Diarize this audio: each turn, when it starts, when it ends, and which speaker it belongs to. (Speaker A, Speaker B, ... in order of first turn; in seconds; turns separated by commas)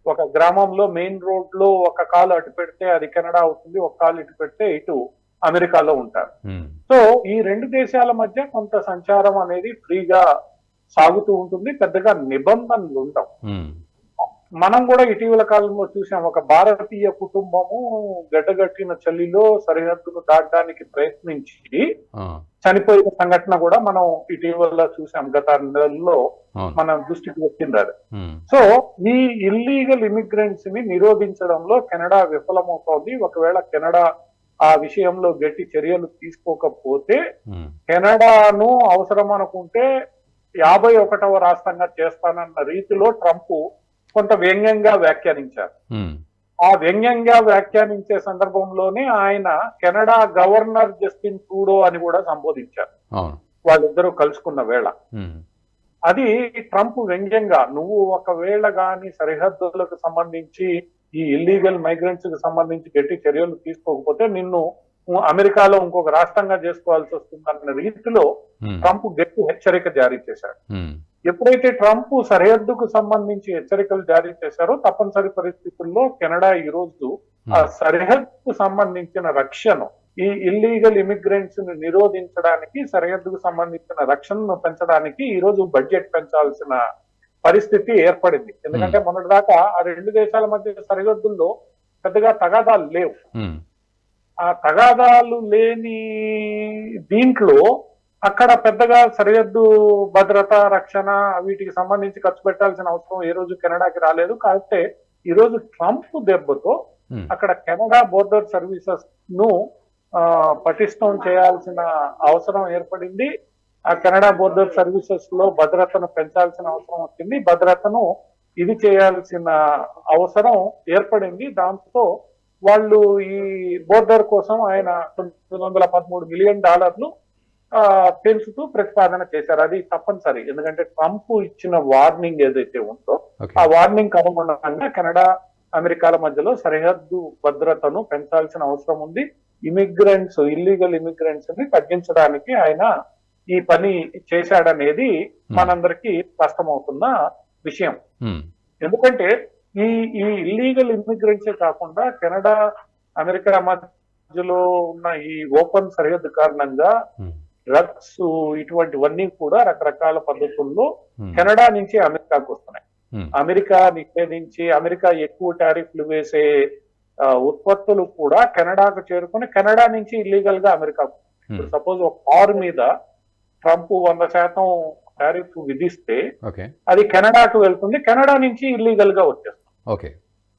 Speaker A: 0.1-5.0, Speaker A: 5.5-6.3, Speaker B: 6.5-6.7, Speaker A: 6.9-10.2, Speaker A: 11.0-13.3, Speaker B: 13.5-13.7, Speaker A: 14.6-17.8, Speaker A: 18.3-21.8, Speaker A: 22.6-26.2, Speaker A: 26.8-27.9, Speaker B: 28.1-28.4, Speaker A: 28.5-34.0, Speaker A: 34.7-37.2, Speaker A: 37.9-39.8, Speaker A: 40.6-43.6, Speaker A: 44.1-45.7, Speaker A: 46.7-52.9, Speaker A: 53.7-54.9, Speaker B: 55.1-55.4, Speaker A: 56.1-60.7, Speaker A: 61.2-64.6, Speaker A: 65.3-68.2, Speaker B: 68.6-68.9, Speaker A: 68.8-70.5, Speaker B: 70.7-71.0, Speaker A: 71.3-86.8, Speaker A: 87.5-91.5, Speaker B: 88.7-89.0, Speaker A: 92.0-93.2, Speaker A: 94.5-97.6, Speaker A: 98.3-99.6, Speaker A: 100.1-106.7, Speaker A: 107.3-109.5, Speaker A: 110.2-113.3, Speaker A: 113.9-118.0, Speaker A: 118.6-119.5, Speaker A: 120.1-122.0, Speaker A: 122.7-127.1, Speaker A: 127.8-135.2, Speaker A: 135.8-142.9, Speaker A: 143.6-147.1, Speaker A: 147.6-147.9, Speaker A: 148.8-149.3, Speaker A: 149.8-152.5, Speaker A: 153.2-153.8, Speaker A: 154.3-156.9, Speaker A: 157.7-162.8, Speaker A: 163.4-166.4, Speaker A: 167.4-172.9, Speaker A: 173.6-176.2, Speaker B: 176.4-176.7, Speaker A: 176.9-179.6